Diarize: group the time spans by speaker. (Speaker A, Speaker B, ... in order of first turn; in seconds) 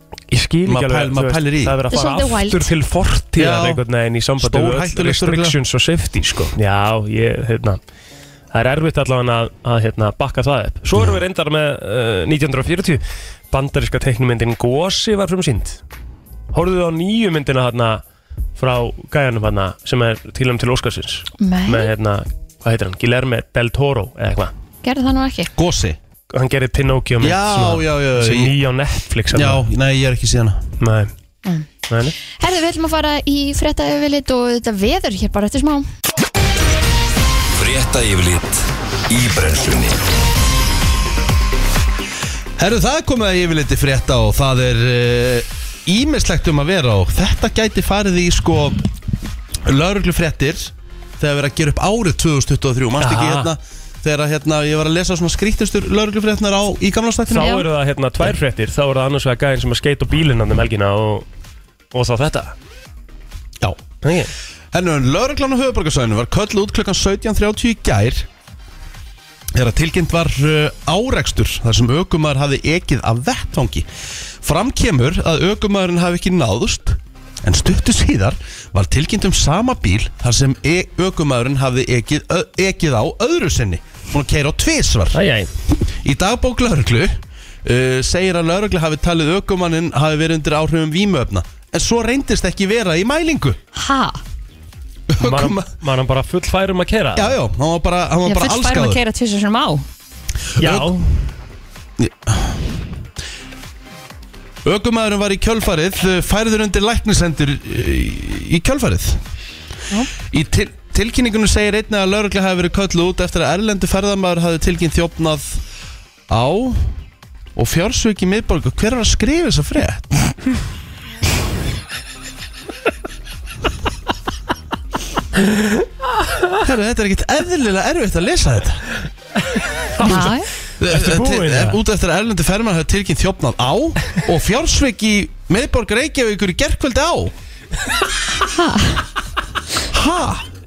Speaker A: 0.3-7.8, 8.5-15.8, 16.5-18.0, 18.6-24.5, 26.3-29.6, 30.8-31.1, 31.9-32.1, 53.0-53.5, 57.3-61.3, 61.9-62.6, 64.0-64.3, 85.1-85.5, 95.2-97.4, 100.6-101.2, 129.4-131.8
Speaker B: 0.7-1.8, 3.4-3.8, 4.4-5.6, 25.6-26.0, 27.2-28.5, 29.3-30.6, 42.6-48.8, 49.6-57.6, 64.7-68.3, 69.5-73.9, 74.4-85.2, 85.8-93.6, 95.1-95.6, 97.2-99.0, 100.5-100.9, 102.0-102.8, 104.6-109.2, 110.2-115.6, 116.3-116.9, 117.5-120.1, 126.6-128.8, 130.8-137.3, 139.9-140.5
Speaker C: 1.9-2.7, 21.4-21.9, 24.8-25.5, 32.3-35.9, 57.4-57.6, 93.7-94.2, 98.2-99.8, 130.0-130.5, 138.4-139.1
Speaker D: 37.6-40.0